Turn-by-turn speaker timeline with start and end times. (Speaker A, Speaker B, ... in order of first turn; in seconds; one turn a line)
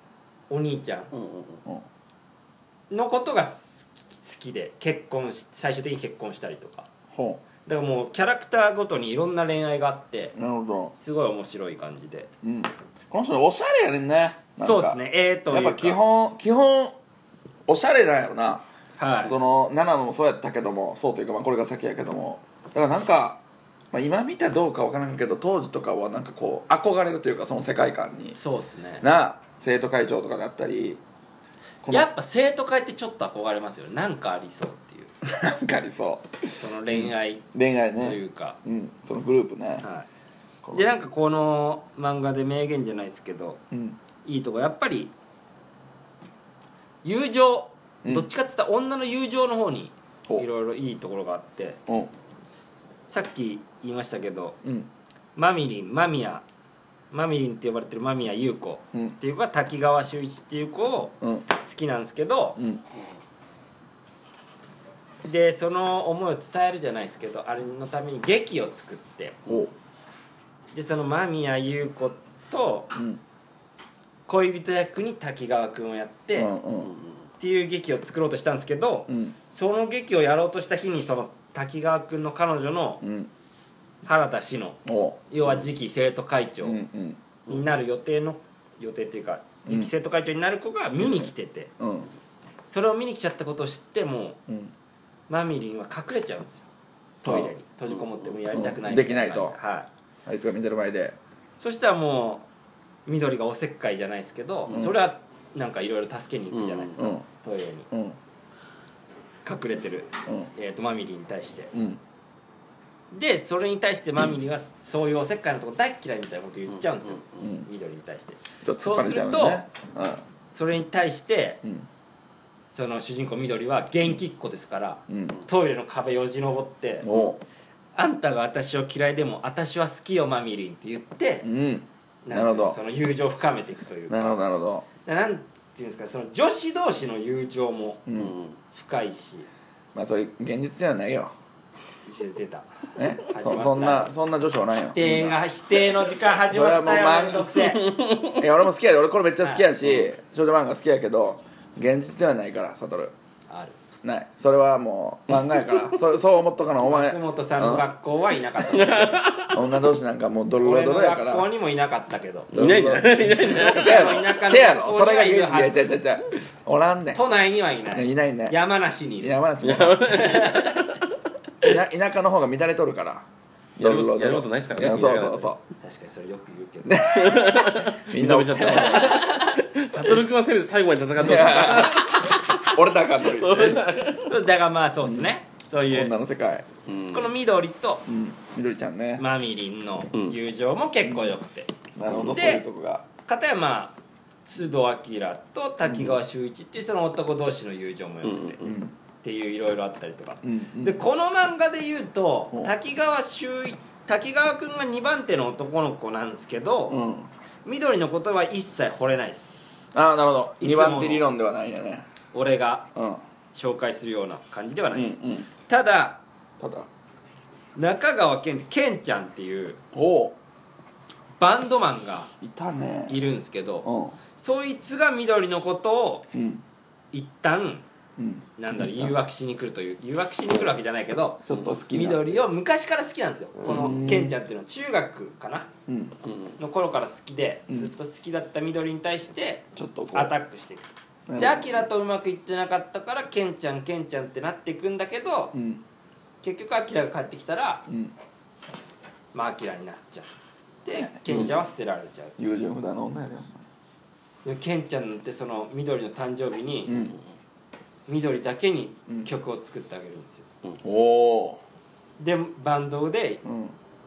Speaker A: 0.5-1.1
Speaker B: 1.1-1.6
Speaker A: 2.9-6.9
Speaker C: 7.1-7.4
Speaker A: 7.7-10.3
Speaker C: 10.3-10.9
Speaker A: 11.0-12.3
Speaker C: 12.4-17.0
Speaker A: 14.6-16.0
Speaker C: 17.7-18.7
Speaker A: 19.0-19.4
Speaker C: 19.2-23.4
Speaker C: 23.9-28.4
Speaker A: 28.4-29.1
Speaker C: 29.0-31.0
Speaker C: 31.8-32.1
Speaker A: 31.9-35.1
Speaker C: 35.2-39.9
Speaker A: 36.6-37.5
Speaker A: 38.0-38.6
Speaker A: 39.8-40.1
Speaker C: 40.6-40.9
Speaker A: 40.7-43.6
Speaker C: 43.7-44.0
Speaker A: 44.2-45.1
Speaker A: 47.0-51.8
Speaker A: 53.1-54.6
Speaker C: 54.6-54.9
Speaker A: 55.4-56.4
Speaker A: 57.1-62.6
Speaker C: 61.2-61.5
Speaker C: 62.6-62.8
Speaker A: 65.2-69.4
Speaker C: 69.5-69.7
Speaker A: 70.7-72.9
Speaker C: 72.9-73.2
Speaker A: 74.3-76.5
Speaker C: 76.3-76.9
Speaker A: 77.4-83.0
Speaker C: 79.1-79.4
Speaker C: 83.0-83.3
Speaker A: 84.0-86.8
Speaker C: 84.8-85.2
Speaker C: 86.6-87.2
Speaker A: 87.5-91.7
Speaker C: 89.7-89.9
Speaker C: 91.0-92.1
Speaker A: 92.7-94.4
Speaker C: 94.5-94.7
Speaker A: 95.3-96.7
Speaker A: 97.2-99.9
Speaker C: 97.2-97.5
Speaker C: 98.5-99.6
Speaker C: 100.3-101.2
Speaker A: 101.6-102.5
Speaker A: 103.1-107.9
Speaker C: 104.7-105.0
Speaker B: 106.5-106.9
Speaker C: 107.0-107.2
Speaker C: 107.9-108.2
Speaker A: 109.5-111.7
Speaker C: 111.7-112.0
Speaker A: 113.1-119.6
Speaker C: 117.4-117.7
Speaker C: 118.6-120.2
Speaker A: 120.5-121.6
Speaker A: 122.7-127.1
Speaker C: 125.1-125.4
Speaker C: 127.0-127.4
Speaker A: 128.0-131.5
Speaker C: 131.4-132.8
Speaker A: 132.2-134.4
Speaker C: 134.1-134.9
Speaker A: 135.0-138.0
Speaker C: 138.1-138.4
Speaker B: 138.2-138.6
Speaker A: 138.7-139.5
Speaker C: 139.9-141.3
Speaker A: 142.1-142.7
Speaker C: 143.0-145.4
Speaker A: 143.2-144.1
Speaker A: 144.8-147.8
Speaker C: 146.5-147.6
Speaker B: 147.7-148.5
Speaker C: 148.3-153.1
Speaker A: 149.4-149.7
Speaker A: 153.5-153.8
Speaker C: 154.0-157.9
Speaker A: 156.8-159.2
Speaker B: 158.7-159.6
Speaker C: 159.5-161.5
Speaker A: 160.6-162.5
Speaker C: 162.5-167.2
Speaker B: 162.5-164.3
Speaker A: 163.4-165.9
Speaker A: 167.1-169.4
Speaker C: 167.9-168.6
Speaker C: 169.2-170.5
Speaker B: 169.6-170.9
Speaker A: 170.1-170.8
Speaker C: 171.6-175.6
Speaker B: 173.8-175.5
Speaker A: 175.8-177.2
Speaker C: 176.8-179.3
Speaker B: 177.1-182.7
Speaker A: 178.6-179.6
Speaker C: 181.2-183.8
Speaker B: 183.2-184.3
Speaker A: 184.3-186.1
Speaker C: 185.0-185.3
Speaker C: 185.9-186.7
Speaker B: 186.9-187.3
Speaker A: 187.1-188.1
Speaker C: 188.1-189.2
Speaker A: 189.2-191.7
Speaker C: 191.0-191.3
Speaker C: 191.9-193.1
Speaker A: 192.3-192.6
Speaker A: 193.3-198.6
Speaker C: 195.8-196.2
Speaker B: 198.2-198.8
Speaker C: 198.6-198.9
Speaker A: 199.2-207.0
Speaker C: 200.4-201.1
Speaker C: 206.9-207.3
Speaker A: 207.7-209.6
Speaker C: 209.9-212.1
Speaker A: 210.6-211.3
Speaker A: 212.3-212.9
Speaker C: 212.9-213.2
Speaker A: 213.5-216.2
Speaker C: 214.9-215.5
Speaker C: 216.6-216.9
Speaker A: 217.8-219.8
Speaker C: 219.9-220.4
Speaker A: 221.4-222.3
Speaker C: 222.4-223.2
Speaker A: 223.1-226.3
Speaker C: 223.8-224.2
Speaker C: 226.3-226.6
Speaker A: 227.1-227.8
Speaker C: 228.2-229.2
Speaker A: 228.6-235.7
Speaker C: 231.5-232.3
Speaker C: 233.7-234.4
Speaker C: 235.9-236.2
Speaker B: 236.2-236.6
Speaker A: 236.6-240.9
Speaker C: 239.8-240.3
Speaker C: 241.3-241.8
Speaker A: 241.4-245.6
Speaker C: 245.5-245.8
Speaker A: 246.4-247.8
Speaker C: 247.9-248.1
Speaker A: 249.3-250.3
Speaker A: 250.8-252.4
Speaker C: 250.9-251.6
Speaker C: 252.4-253.6
Speaker A: 254.4-256.9
Speaker C: 256.9-257.2
Speaker A: 258.1-260.5
Speaker C: 260.8-261.6
Speaker A: 262.2-263.4
Speaker C: 263.4-263.8